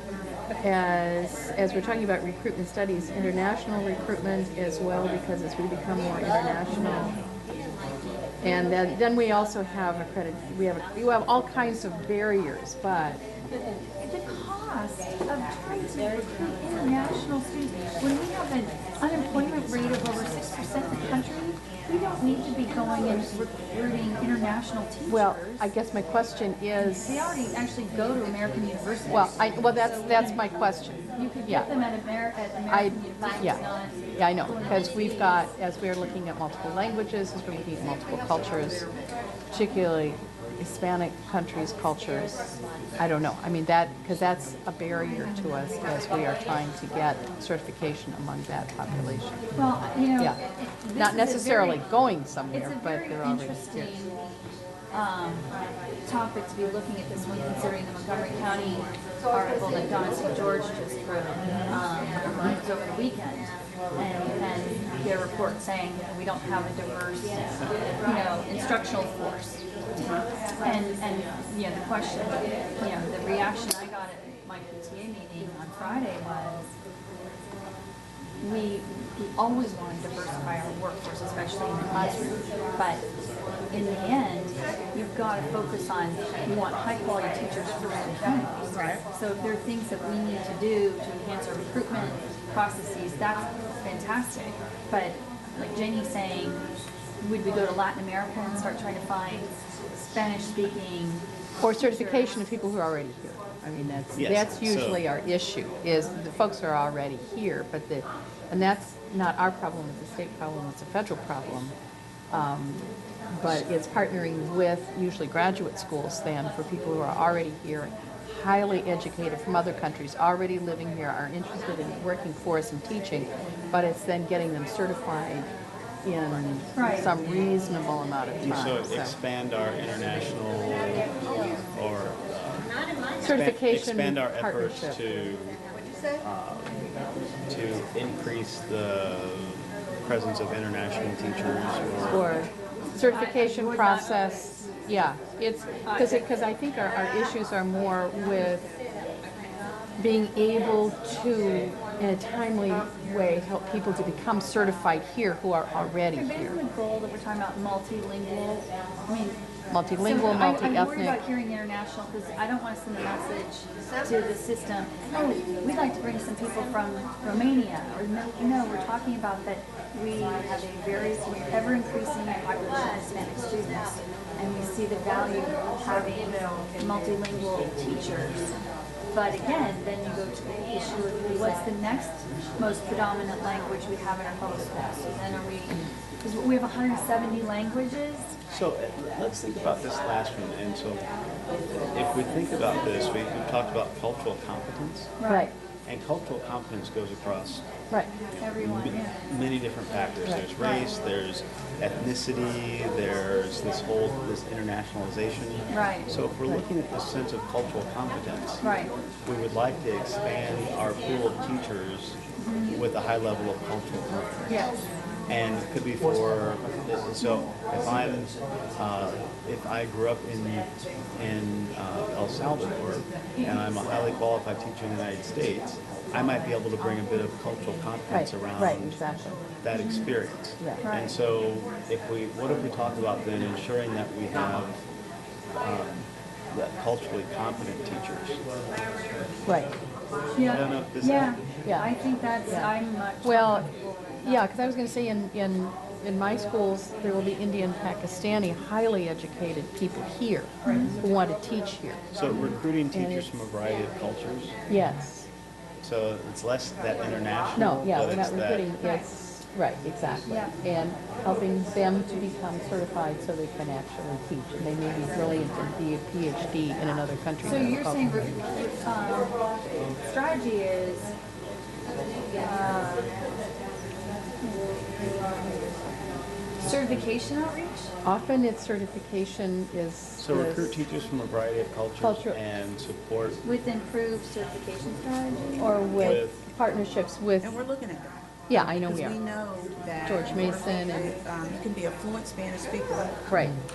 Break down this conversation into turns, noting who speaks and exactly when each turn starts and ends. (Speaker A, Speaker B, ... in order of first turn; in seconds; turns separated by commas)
Speaker A: 0.6-7.1, Speaker B: 6.7-7.2, Speaker A: 8.4-13.2, Speaker B: 14.0-25.7, Speaker A: 25.1-27.4, Speaker B: 26.8-30.4, Speaker A: 29.1-31.7, Speaker B: 31.2-35.0, Speaker A: 32.7-33.6, Speaker A: 34.2-38.9, Speaker A: 39.5-49.4, Speaker B: 49.5-51.9, Speaker A: 51.0-54.0, Speaker B: 52.5-54.2, Speaker B: 54.9-55.5, Speaker B: 56.1-67.4, Speaker B: 68.0-69.6, Speaker B: 70.6-76.7, Speaker B: 78.4-83.0, Speaker B: 83.7-96.7, Speaker C: 88.7-89.0, Speaker B: 97.2-101.2, Speaker A: 101.6-111.7, Speaker B: 101.8-102.5, Speaker D: 104.2-105.1, Speaker A: 112.3-125.5, Speaker A: 126.0-129.2, Speaker B: 126.8-127.1, Speaker D: 128.4-132.7, Speaker A: 133.2-135.0, Speaker D: 133.2-135.6, Speaker D: 136.2-136.8, Speaker D: 137.5-142.3, Speaker A: 142.1-148.7, Speaker B: 143.0-144.7, Speaker B: 145.9-146.3, Speaker A: 150.0-156.6, Speaker B: 156.1-159.4, Speaker A: 159.7-161.2, Speaker B: 160.0-178.5, Speaker B: 179.1-188.3, Speaker D: 188.5-191.1, Speaker D: 191.9-195.1, Speaker B: 195.2-195.5, Speaker A: 195.3-195.5, Speaker D: 195.8-197.7, Speaker B: 198.4-199.2, Speaker D: 198.6-208.6, Speaker B: 200.6-200.9, Speaker B: 205.7-206.1, Speaker B: 208.6-208.9, Speaker D: 209.2-212.2, Speaker B: 212.4-212.8, Speaker D: 212.7-214.7, Speaker B: 214.5-214.8, Speaker D: 215.3-234.8, Speaker B: 217.2-217.5, Speaker A: 228.1-229.4, Speaker B: 229.7-230.1, Speaker B: 230.8-231.2, Speaker D: 235.6-238.4, Speaker A: 239.5-239.7, Speaker B: 240.3-244.5, Speaker D: 240.5-241.4, Speaker A: 241.7-241.9, Speaker A: 243.2-243.7, Speaker A: 244.2-253.3, Speaker B: 250.6-251.0, Speaker D: 252.1-254.6, Speaker B: 252.3-252.6, Speaker A: 254.7-255.3, Speaker D: 255.8-258.7, Speaker A: 257.6-268.2, Speaker B: 258.8-259.1, Speaker B: 260.3-260.6, Speaker B: 267.4-269.4, Speaker B: 270.0-271.1, Speaker B: 272.4-273.1, Speaker B: 276.6-277.9, Speaker A: 278.0-280.8, Speaker D: 280.2-283.4, Speaker A: 282.0-282.4, Speaker B: 283.4-286.0, Speaker A: 285.6-287.6, Speaker D: 286.0-286.4, Speaker C: 287.4-293.2, Speaker A: 288.5-289.2, Speaker A: 290.1-291.1, Speaker A: 293.3-293.6